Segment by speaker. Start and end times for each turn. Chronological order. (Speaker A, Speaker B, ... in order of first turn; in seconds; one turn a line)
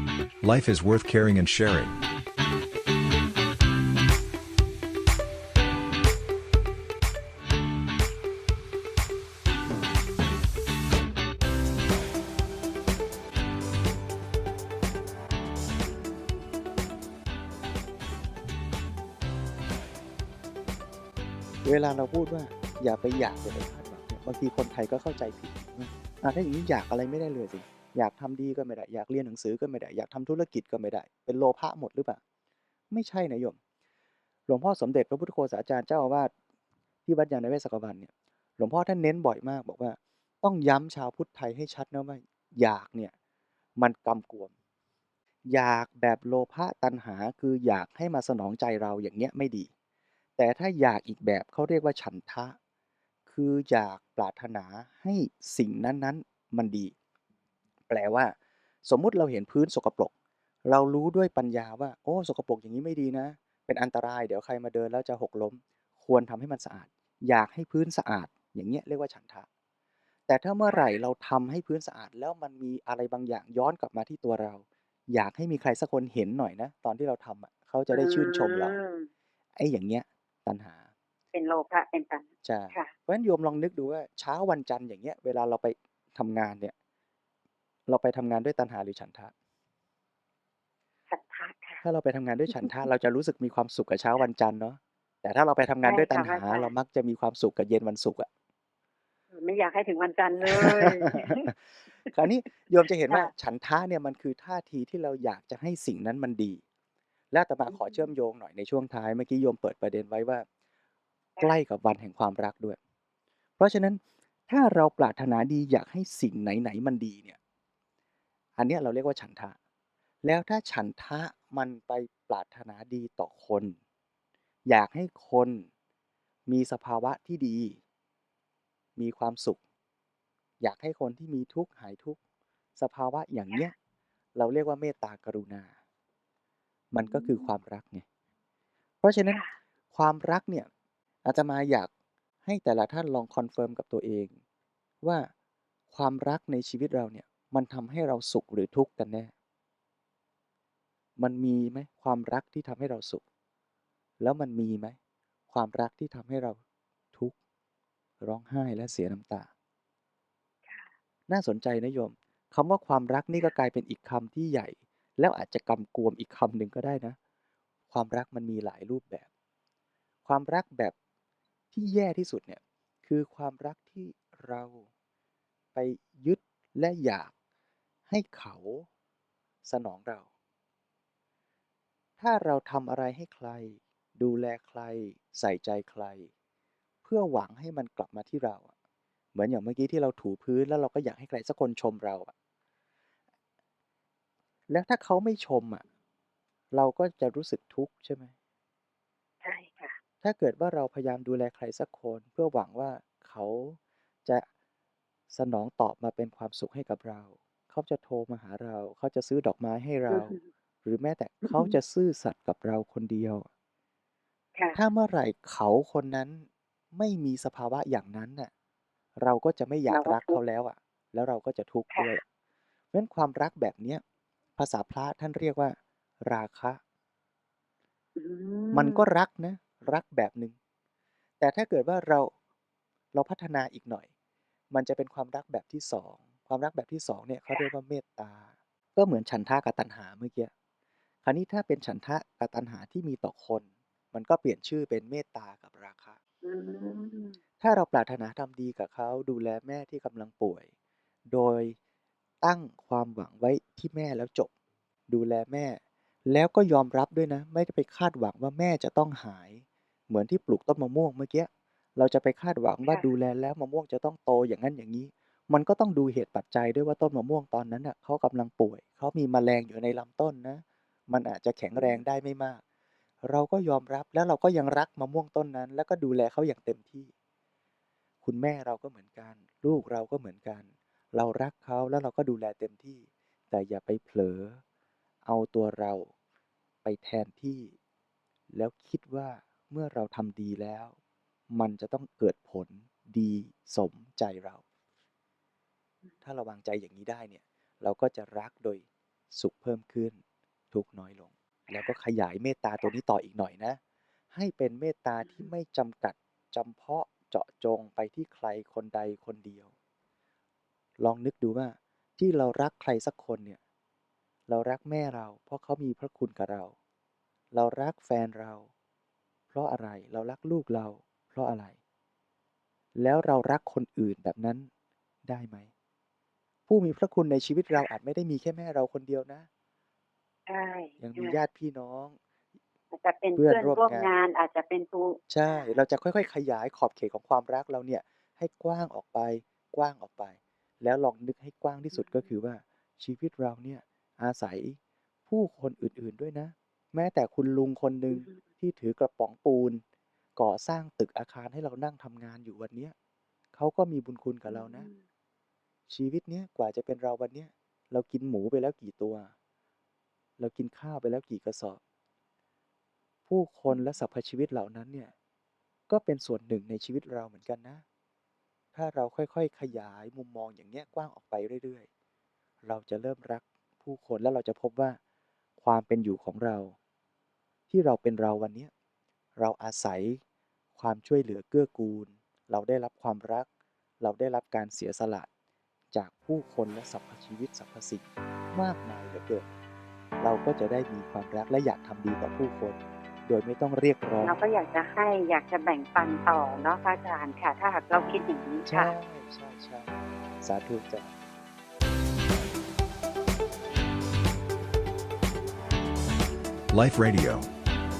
Speaker A: 0.4-2.0
Speaker B: 21.6-32.2
Speaker B: 32.9-33.6
Speaker B: 34.5-36.3
Speaker B: 37.0-43.1
Speaker B: 43.8-44.5
Speaker B: 45.5-49.7
Speaker B: 50.4-52.5
Speaker B: 53.3-56.9
Speaker B: 57.9-58.3
Speaker B: 58.8-60.1
Speaker B: 60.7-69.5
Speaker B: 70.3-78.8
Speaker C: 70.7-71.0
Speaker C: 77.9-79.1
Speaker B: 79.5-80.9
Speaker C: 81.3-82.9
Speaker B: 82.4-86.7
Speaker B: 87.9-89.3
Speaker C: 91.1-91.8
Speaker B: 91.8-98.3
Speaker C: 92.5-92.8
Speaker C: 95.8-96.7
Speaker C: 99.3-102.1
Speaker B: 100.5-101.5
Speaker B: 102.0-106.6
Speaker B: 107.3-110.5
Speaker C: 107.7-108.1
Speaker B: 111.4-112.8
Speaker B: 113.6-117.4
Speaker B: 118.6-119.5
Speaker B: 120.2-123.8
Speaker B: 124.7-125.7
Speaker B: 126.5-127.8
Speaker B: 129.0-129.6
Speaker B: 130.6-132.2
Speaker B: 132.8-133.7
Speaker B: 134.3-135.7
Speaker B: 136.9-138.0
Speaker C: 137.0-137.5
Speaker B: 139.0-140.7
Speaker C: 139.3-139.5
Speaker B: 141.2-141.9
Speaker B: 142.4-144.3
Speaker B: 145.0-145.3
Speaker B: 145.9-149.3
Speaker B: 151.2-153.2
Speaker B: 154.2-155.0
Speaker B: 155.5-156.6
Speaker B: 158.2-159.5
Speaker B: 161.3-167.2
Speaker B: 167.9-169.2
Speaker B: 170.2-170.9
Speaker B: 171.7-174.9
Speaker B: 175.7-177.3
Speaker B: 178.1-178.9
Speaker B: 179.6-180.3
Speaker B: 182.2-186.3
Speaker B: 187.0-188.7
Speaker B: 189.3-192.3
Speaker B: 194.7-195.8
Speaker B: 196.7-198.3
Speaker C: 199.4-200.0
Speaker B: 200.2-204.5
Speaker B: 205.3-213.5
Speaker C: 210.1-210.4
Speaker C: 211.4-211.8
Speaker B: 214.8-218.5
Speaker B: 219.2-222.2
Speaker C: 219.9-220.4
Speaker C: 221.9-222.2
Speaker B: 222.9-224.0
Speaker B: 224.6-226.8
Speaker C: 228.2-229.1
Speaker B: 228.7-230.6
Speaker B: 231.4-232.3
Speaker B: 233.1-234.1
Speaker B: 234.7-240.5
Speaker B: 241.2-246.2
Speaker C: 246.4-247.4
Speaker B: 247.6-250.7
Speaker B: 251.3-251.8
Speaker B: 252.4-254.5
Speaker B: 255.1-272.6
Speaker C: 271.8-272.0
Speaker B: 273.2-277.1
Speaker B: 278.2-284.6
Speaker B: 285.2-286.1
Speaker B: 286.8-287.7
Speaker B: 288.5-290.9
Speaker B: 291.5-294.6
Speaker B: 296.2-300.2
Speaker B: 300.7-303.8
Speaker C: 301.7-301.9
Speaker B: 304.3-309.7
Speaker C: 305.2-305.5
Speaker B: 311.0-313.6
Speaker B: 314.5-316.8
Speaker B: 317.5-318.7
Speaker B: 319.5-321.8
Speaker B: 323.0-324.7
Speaker B: 325.3-325.7
Speaker B: 326.7-329.5
Speaker C: 330.5-331.4
Speaker B: 331.0-332.2
Speaker C: 332.9-335.8
Speaker B: 333.4-334.1
Speaker B: 335.3-349.8
Speaker C: 341.9-342.3
Speaker C: 348.1-348.4
Speaker B: 350.4-352.9
Speaker B: 353.5-354.9
Speaker C: 354.5-355.0
Speaker B: 355.9-359.3
Speaker B: 360.4-361.8
Speaker B: 363.3-365.1
Speaker C: 363.7-364.0
Speaker B: 365.9-367.8
Speaker B: 368.7-371.9
Speaker B: 372.6-375.0
Speaker B: 375.6-376.8
Speaker B: 377.7-378.7
Speaker B: 379.4-380.2
Speaker B: 380.8-383.5
Speaker B: 384.0-385.3
Speaker B: 385.9-389.5
Speaker B: 390.2-394.4
Speaker C: 394.2-398.9
Speaker B: 398.7-401.1
Speaker A: 406.7-407.5